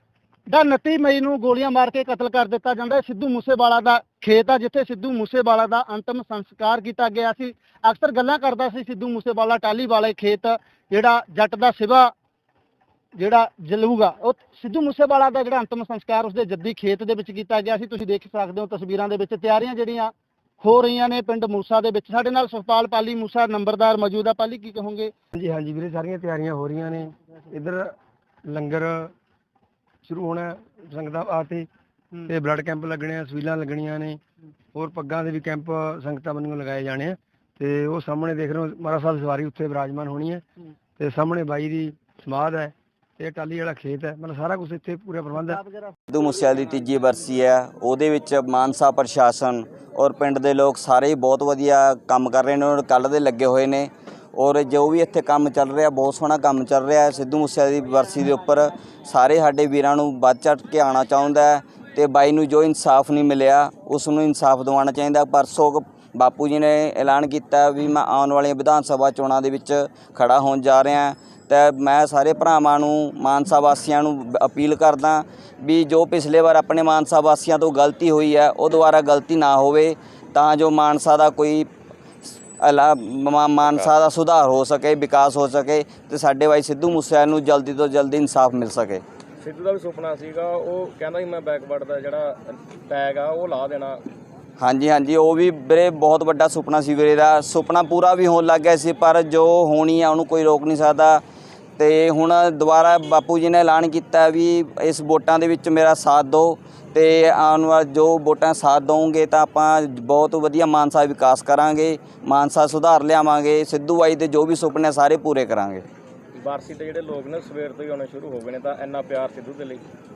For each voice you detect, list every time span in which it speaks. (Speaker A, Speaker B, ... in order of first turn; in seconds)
Speaker A: 0.5-12.1, 13.2-25.1
Speaker B: 25.3-27.9, 28.5-29.1, 30.1-31.7, 32.3-34.2, 34.7-40.4, 41.0-45.6
Speaker C: 46.1-81.7, 82.6-89.0, 94.6-101.2, 101.8-115.8
Speaker D: 83.7-83.9, 89.4-94.0, 116.4-119.8